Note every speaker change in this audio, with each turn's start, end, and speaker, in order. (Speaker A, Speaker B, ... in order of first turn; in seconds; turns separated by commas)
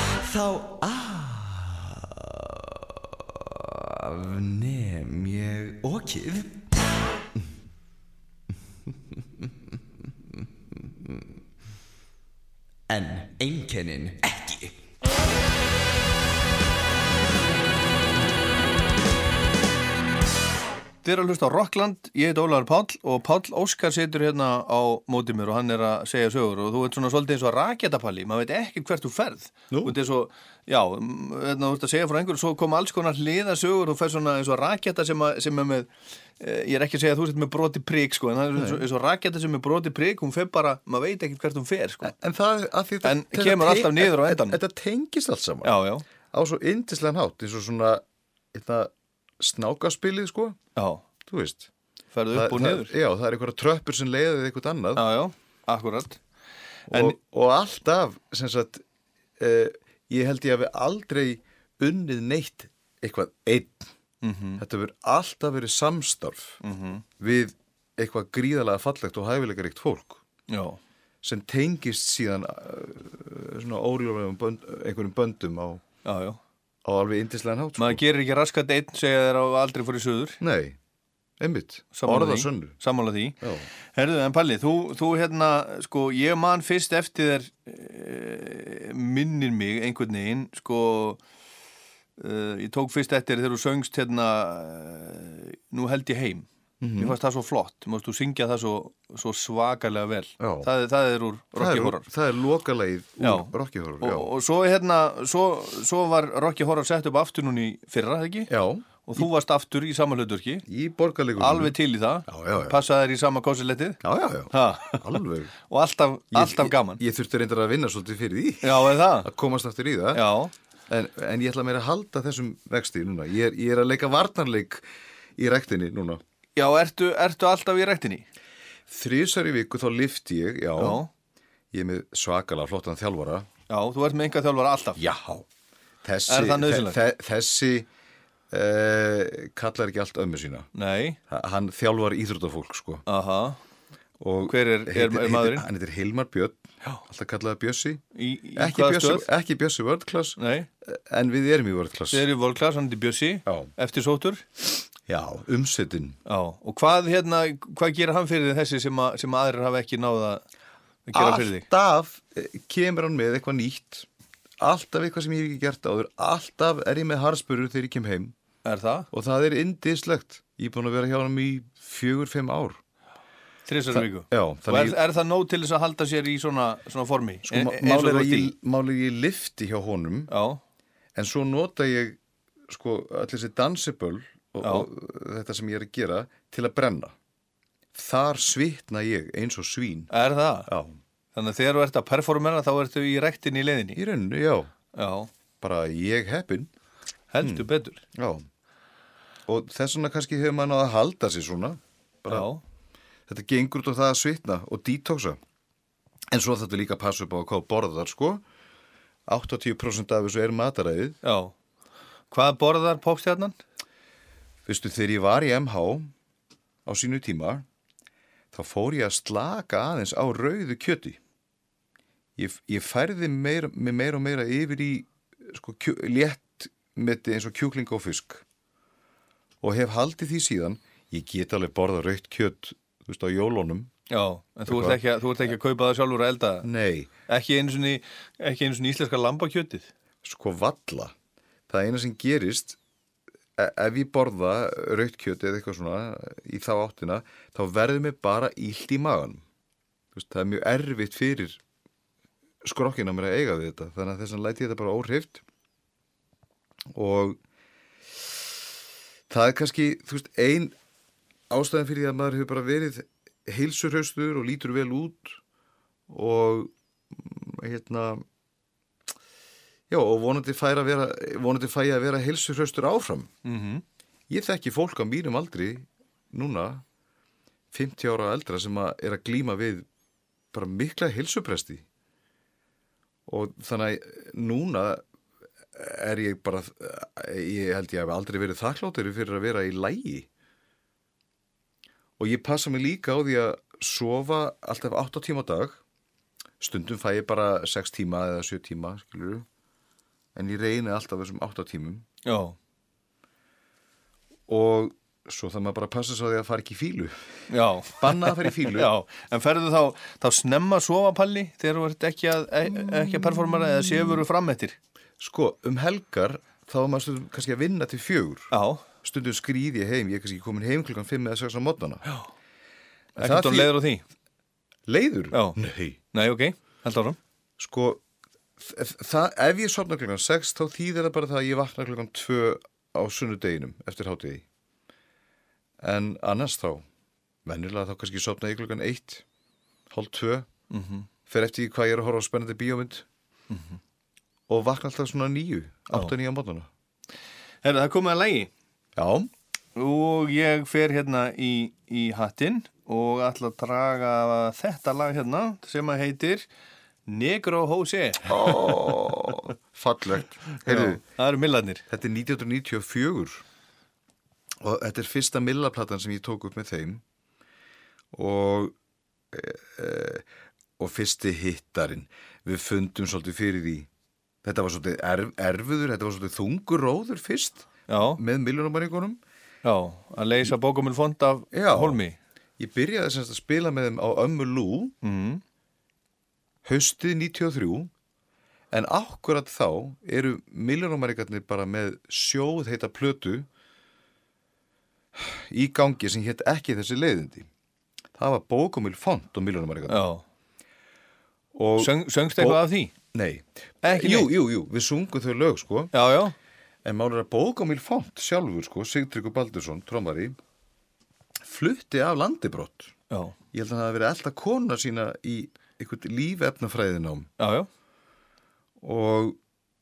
Speaker A: 0.2-2.8, Speaker A: 3.4-6.5, Speaker A: 12.9-14.8, Speaker B: 21.0-42.1, Speaker C: 38.5-38.8, Speaker C: 42.0-48.0, Speaker B: 43.0-44.6, Speaker B: 45.6-46.0, Speaker C: 48.5-50.6, Speaker B: 50.8-51.0, Speaker C: 51.3-51.7, Speaker B: 52.1-52.9, Speaker C: 52.3-55.0, Speaker B: 55.0-56.2, Speaker B: 56.9-57.1, Speaker C: 56.9-58.8, Speaker C: 59.4-63.9, Speaker B: 64.2-64.6, Speaker C: 64.6-66.6, Speaker B: 66.6-67.0, Speaker C: 67.2-70.2, Speaker B: 70.5-70.8, Speaker C: 71.2-75.8, Speaker B: 76.0-76.4, Speaker C: 76.8-78.0, Speaker B: 77.8-80.4, Speaker C: 80.4-80.8, Speaker C: 81.4-82.8, Speaker B: 81.9-83.4, Speaker C: 83.4-83.7, Speaker B: 83.9-91.2, Speaker B: 92.2-102.1, Speaker C: 96.8-97.2, Speaker C: 100.4-100.7, Speaker C: 101.5-104.3, Speaker B: 103.2-108.5, Speaker C: 108.5-109.3, Speaker B: 109.0-110.6, Speaker C: 110.7-111.8, Speaker B: 111.4-114.0, Speaker C: 112.3-112.8, Speaker C: 114.0-115.5, Speaker B: 114.5-115.2, Speaker B: 115.7-117.0, Speaker C: 116.3-120.3, Speaker B: 118.6-119.3, Speaker B: 120.1-120.5, Speaker C: 120.9-124.8, Speaker C: 125.4-126.2, Speaker B: 126.5-128.2, Speaker C: 128.9-131.0, Speaker B: 130.8-131.1, Speaker C: 131.7-133.5, Speaker B: 133.7-135.0, Speaker C: 135.0-135.5, Speaker C: 136.0-137.9, Speaker B: 136.3-137.0, Speaker C: 138.5-140.7, Speaker B: 140.7-141.2, Speaker C: 141.3-143.0, Speaker B: 143.1-143.6, Speaker C: 144.2-148.0, Speaker B: 144.4-145.7, Speaker B: 148.2-149.3, Speaker C: 148.6-152.2, Speaker B: 150.4-150.7, Speaker B: 152.1-154.4, Speaker C: 153.4-153.7, Speaker C: 155.1-156.2, Speaker B: 156.3-160.4, Speaker B: 161.1-161.7, Speaker C: 161.1-164.1, Speaker C: 164.6-168.3, Speaker B: 168.6-169.1, Speaker C: 169.1-172.8, Speaker B: 173.7-178.5, Speaker C: 173.9-175.0, Speaker C: 177.4-180.3, Speaker B: 180.3-180.6, Speaker C: 181.2-187.2, Speaker B: 184.6-184.9, Speaker C: 187.9-190.1, Speaker B: 190.1-190.7, Speaker C: 190.7-191.0, Speaker B: 191.3-194.0, Speaker C: 193.9-194.7, Speaker B: 194.9-195.3, Speaker C: 195.6-196.7, Speaker B: 197.3-198.0, Speaker C: 197.4-198.5, Speaker C: 199.5-202.5, Speaker B: 202.3-202.6, Speaker C: 203.3-205.4, Speaker C: 206.3-208.4, Speaker C: 209.3-211.2, Speaker B: 211.2-211.5, Speaker B: 212.3-213.6, Speaker C: 214.7-216.1, Speaker C: 216.8-217.6, Speaker C: 218.5-221.2, Speaker C: 222.4-228.4, Speaker C: 229.6-233.9, Speaker B: 234.1-236.7, Speaker C: 234.7-235.0, Speaker C: 236.6-237.1, Speaker B: 237.3-239.9, Speaker C: 240.2-241.1, Speaker C: 241.7-242.8, Speaker C: 243.6-249.4, Speaker C: 250.1-251.6, Speaker C: 252.6-255.4, Speaker C: 256.9-257.4, Speaker C: 259.3-260.7, Speaker C: 261.5-265.4, Speaker C: 266.1-268.2, Speaker C: 269.9-273.3, Speaker B: 273.4-273.8, Speaker C: 274.3-276.8, Speaker C: 277.7-279.9, Speaker C: 280.5-281.8, Speaker C: 283.3-285.0, Speaker C: 285.7-290.3, Speaker C: 292.2-295.8, Speaker C: 296.6-299.4, Speaker C: 300.3-302.1, Speaker B: 302.2-302.6, Speaker C: 304.5-307.4, Speaker B: 307.5-314.8, Speaker C: 308.0-308.9, Speaker C: 312.7-314.2, Speaker C: 315.2-318.5, Speaker B: 318.5-318.8, Speaker C: 319.0-322.0, Speaker C: 323.2-323.8, Speaker B: 323.2-324.0, Speaker C: 324.9-326.0, Speaker B: 325.3-325.6, Speaker B: 326.1-327.2, Speaker C: 327.6-328.0, Speaker C: 328.6-334.4, Speaker C: 335.8-336.8, Speaker C: 337.4-339.2, Speaker C: 339.9-340.5, Speaker B: 340.7-341.1, Speaker C: 341.3-343.1, Speaker B: 343.5-343.8, Speaker C: 344.5-346.7, Speaker B: 347.6-348.5, Speaker C: 348.9-349.3, Speaker B: 349.8-356.4, Speaker B: 357.1-358.7, Speaker C: 358.2-361.0, Speaker B: 360.6-361.8, Speaker C: 361.9-363.4, Speaker C: 364.6-367.0, Speaker C: 368.1-368.7, Speaker C: 369.3-370.2, Speaker C: 370.8-373.9, Speaker C: 374.4-379.2, Speaker B: 377.9-378.2, Speaker B: 379.6-382.2, Speaker C: 381.5-382.0, Speaker C: 382.6-384.9, Speaker B: 385.0-385.4, Speaker C: 386.6-387.9, Speaker C: 388.7-393.5, Speaker C: 395.1-397.5, Speaker C: 398.1-400.1, Speaker B: 399.9-400.2, Speaker C: 401.5-405.9, Speaker B: 401.8-402.9, Speaker B: 403.8-404.3, Speaker B: 405.9-406.3, Speaker C: 406.8-410.4, Speaker C: 411.4-412.9, Speaker B: 413.1-413.4, Speaker C: 413.5-417.3, Speaker B: 417.4-417.7, Speaker C: 418.8-419.4